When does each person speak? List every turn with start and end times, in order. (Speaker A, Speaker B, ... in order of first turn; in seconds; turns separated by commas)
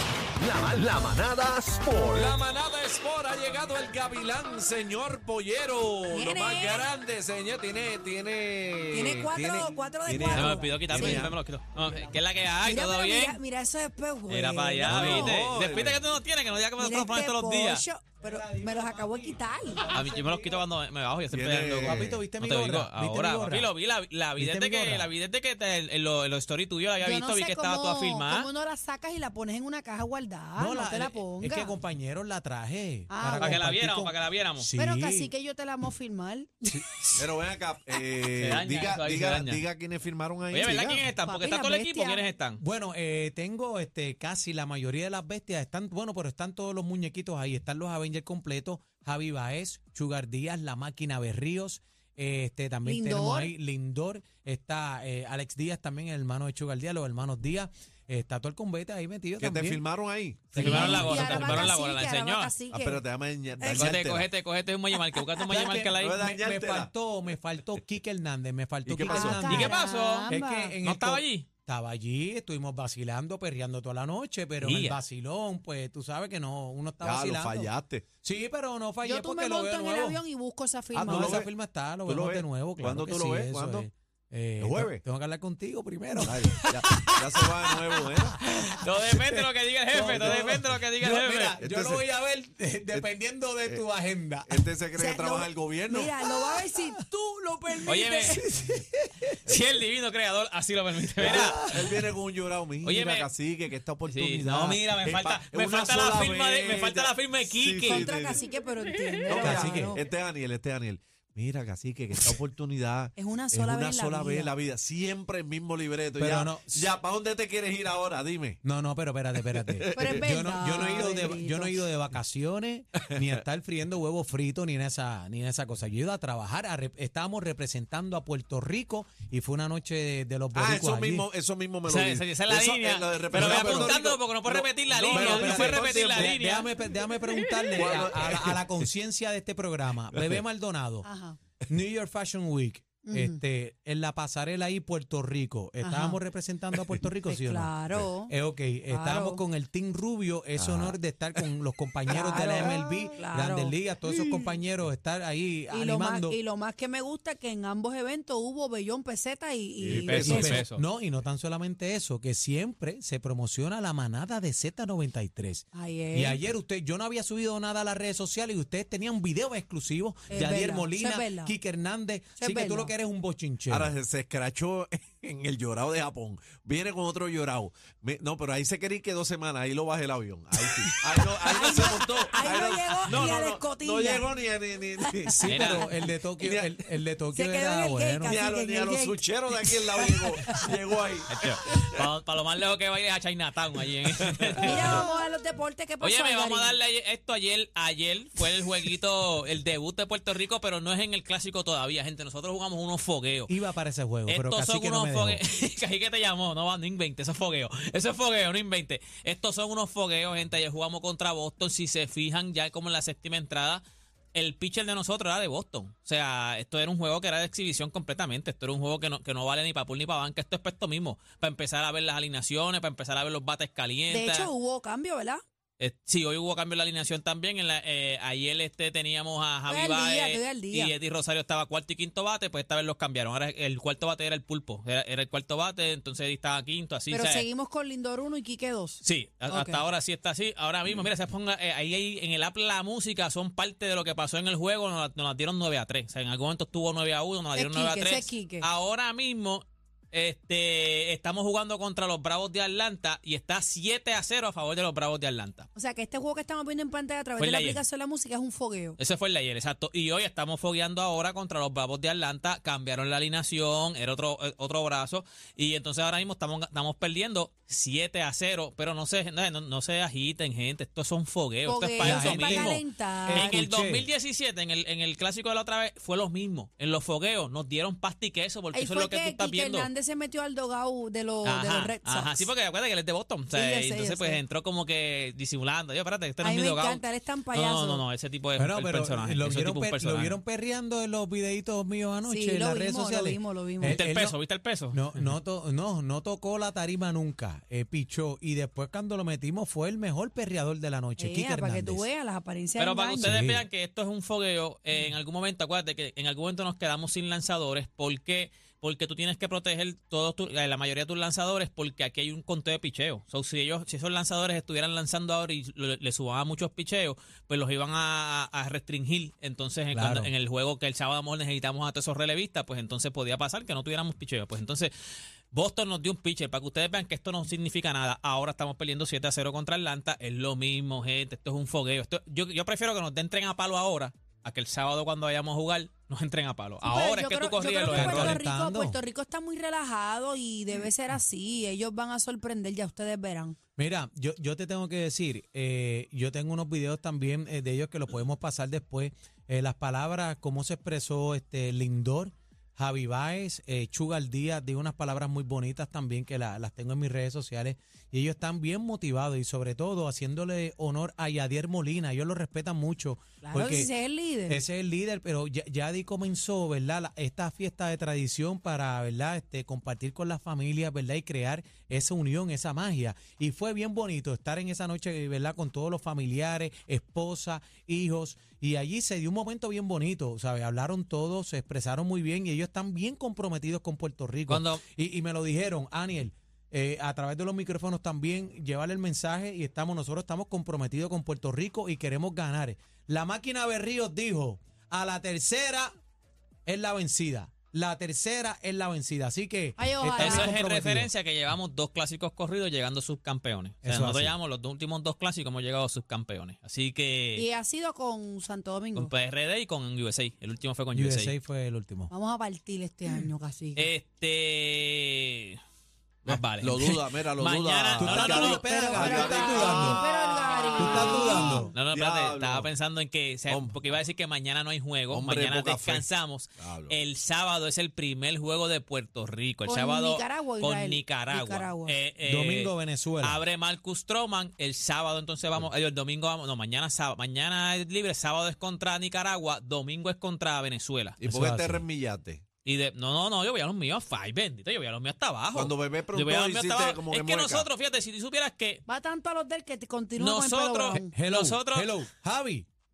Speaker A: 0.4-2.3, Speaker B: 2.2-9.5, Speaker A: 6.1-6.9, Speaker C: 8.9-11.3, Speaker A: 8.9-11.2, Speaker D: 10.3-13.4, Speaker A: 12.7-15.3, Speaker D: 14.3-17.8, Speaker C: 14.8-16.0, Speaker A: 16.8-19.9, Speaker E: 18.2-20.6, Speaker D: 19.9-28.5, Speaker C: 21.3-22.2, Speaker E: 21.8-23.7, Speaker E: 24.4-25.1, Speaker A: 27.0-31.7, Speaker E: 30.6-35.3, Speaker A: 33.1-33.5, Speaker D: 33.4-34.7, Speaker A: 34.8-36.7, Speaker E: 36.6-37.2, Speaker C: 37.1-41.1, Speaker D: 38.2-39.6, Speaker D: 40.5-42.6, Speaker A: 41.2-42.3, Speaker E: 42.6-59.8, Speaker A: 52.8-53.5, Speaker C: 59.4-61.3, Speaker E: 60.5-61.7, Speaker D: 60.5-62.5, Speaker A: 60.8-62.8, Speaker C: 62.7-64.3, Speaker D: 63.6-66.3, Speaker E: 65.5-80.2, Speaker C: 65.9-66.9, Speaker C: 68.8-69.6, Speaker A: 69.0-70.7, Speaker D: 69.3-71.5, Speaker D: 74.6-75.0, Speaker C: 77.0-78.0, Speaker A: 79.0-81.4, Speaker C: 80.9-81.5, Speaker E: 81.0-86.7, Speaker C: 82.0-83.9, Speaker C: 84.6-85.0, Speaker C: 86.1-88.4, Speaker D: 86.6-87.7, Speaker D: 88.4-91.6, Speaker E: 89.0-89.4, Speaker E: 89.9-94.7, Speaker C: 89.9-90.6, Speaker C: 91.6-92.0, Speaker C: 94.5-96.2, Speaker A: 95.0-98.4, Speaker E: 96.2-97.0, Speaker E: 97.6-99.5, Speaker D: 97.8-98.4, Speaker D: 99.5-101.9, Speaker C: 101.2-108.4, Speaker E: 101.2-102.1, Speaker D: 102.8-103.3, Speaker D: 104.1-108.0, Speaker A: 107.8-110.0, Speaker C: 109.2-118.6, Speaker E: 109.3-110.0, Speaker A: 113.2-114.5, Speaker E: 116.2-117.0, Speaker E: 118.6-131.3, Speaker C: 119.3-120.9, Speaker A: 119.9-121.8, Speaker C: 130.5-136.3, Speaker D: 131.8-136.7, Speaker E: 133.3-134.2, Speaker E: 135.1-141.1, Speaker C: 137.7-138.8, Speaker C: 140.1-140.4, Speaker A: 141.0-141.4, Speaker E: 141.7-156.4, Speaker A: 143.0-143.4, Speaker A: 145.8-146.2, Speaker A: 147.3-148.3, Speaker A: 148.9-149.4, Speaker C: 150.6-151.0, Speaker C: 152.1-152.7, Speaker A: 152.1-153.7, Speaker A: 155.7-160.5, Speaker C: 159.8-160.7, Speaker D: 159.8-160.8, Speaker E: 160.1-173.9, Speaker A: 165.7-166.4, Speaker A: 170.3-171.5, Speaker A: 172.4-172.9, Speaker C: 173.7-185.9, Speaker A: 181.4-184.3, Speaker D: 182.3-183.5, Speaker A: 185.0-185.4, Speaker E: 185.2-188.4, Speaker D: 185.4-185.8, Speaker C: 186.4-186.8, Speaker A: 187.3-190.7, Speaker C: 188.2-192.1, Speaker D: 191.3-195.1, Speaker C: 194.1-194.9, Speaker A: 194.7-196.8, Speaker D: 196.0-203.5, Speaker E: 203.5-205.4, Speaker D: 204.3-213.8, Speaker D: 214.3-224.5, Speaker A: 224.1-225.4, Speaker D: 225.8-237.4, Speaker A: 229.7-230.9, Speaker A: 237.1-239.8, Speaker D: 239.0-255.7, Speaker A: 247.5-248.7, Speaker A: 255.7-259.0, Speaker D: 257.4-257.8, Speaker D: 259.0-279.9, Speaker A: 271.6-273.6, Speaker E: 272.0-274.1, Speaker A: 278.7-282.5, Speaker D: 281.4-290.4, Speaker A: 283.5-284.4, Speaker A: 286.4-288.1, Speaker E: 288.6-294.4, Speaker A: 292.3-294.0, Speaker D: 293.9-295.3, Speaker E: 294.9-302.0, Speaker A: 301.2-303.3, Speaker D: 302.8-324.9, Speaker E: 303.2-303.6, Speaker E: 319.9-320.3, Speaker D: 325.5-338.4, Speaker A: 336.8-343.6, Speaker E: 337.9-339.0, Speaker E: 343.8-363.9, Speaker A: 363.4-364.6, Speaker E: 364.5-395.9, Speaker D: 384.5-384.8, Speaker E: 396.7-401.1, Speaker A: 399.8-400.5, Speaker D: 400.2-407.5, Speaker E: 403.8-404.3, Speaker A: 407.4-409.1, Speaker D: 408.9-411.3, Speaker E: 410.9-412.1, Speaker A: 412.1-413.9, Speaker D: 413.8-415.6, Speaker D: 416.2-419.7, Speaker C: 416.3-422.7, Speaker E: 418.0-420.0, Speaker A: 418.7-421.5, Speaker E: 420.7-421.7, Speaker D: 421.0-441.2, Speaker C: 423.5-423.8, Speaker C: 425.1-426.1, Speaker C: 426.6-426.9, Speaker A: 429.7-432.0, Speaker E: 432.2-433.4, Speaker C: 441.2-442.4, Speaker E: 441.2-441.8, Speaker D: 442.6-448.8, Speaker C: 445.5-447.7, Speaker A: 448.9-451.1, Speaker D: 450.2-452.0, Speaker E: 450.9-452.7